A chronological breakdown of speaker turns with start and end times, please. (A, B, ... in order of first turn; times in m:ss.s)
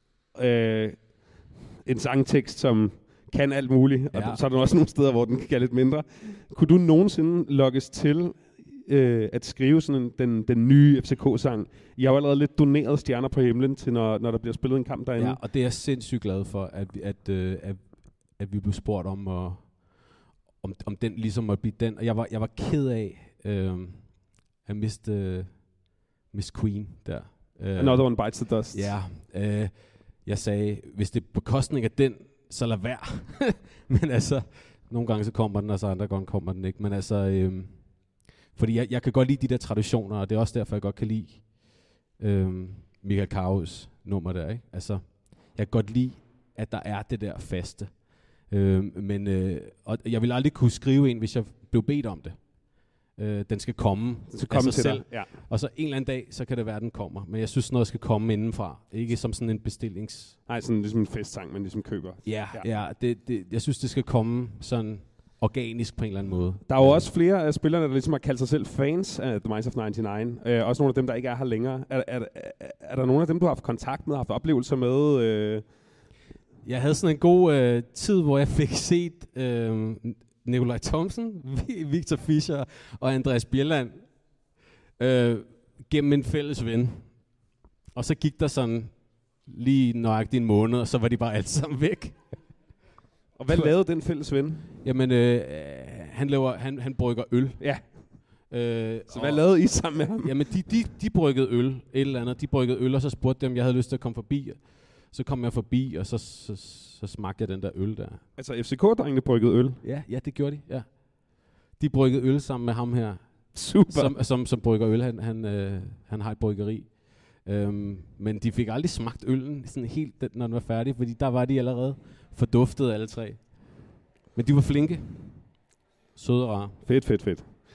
0:00.3-0:15.4 A
0:04.1-0:04.4 B
0:15.2-1:00.4 B
0:27.8-0:28.9 A
0:54.3-0:55.3 A
1:00.5-1:02.7 A
1:02.2-1:07.0 B
1:06.7-1:15.6 A
1:16.6-1:32.5 B
1:33.4-1:34.7 A
1:34.8-1:48.2 B
1:37.6-1:38.1 A
1:39.1-1:40.3 A
1:48.4-1:49.8 A
1:49.8-2:05.5 B
1:53.5-1:54.1 A
2:06.1-2:06.8 B
2:06.8-2:07.6 A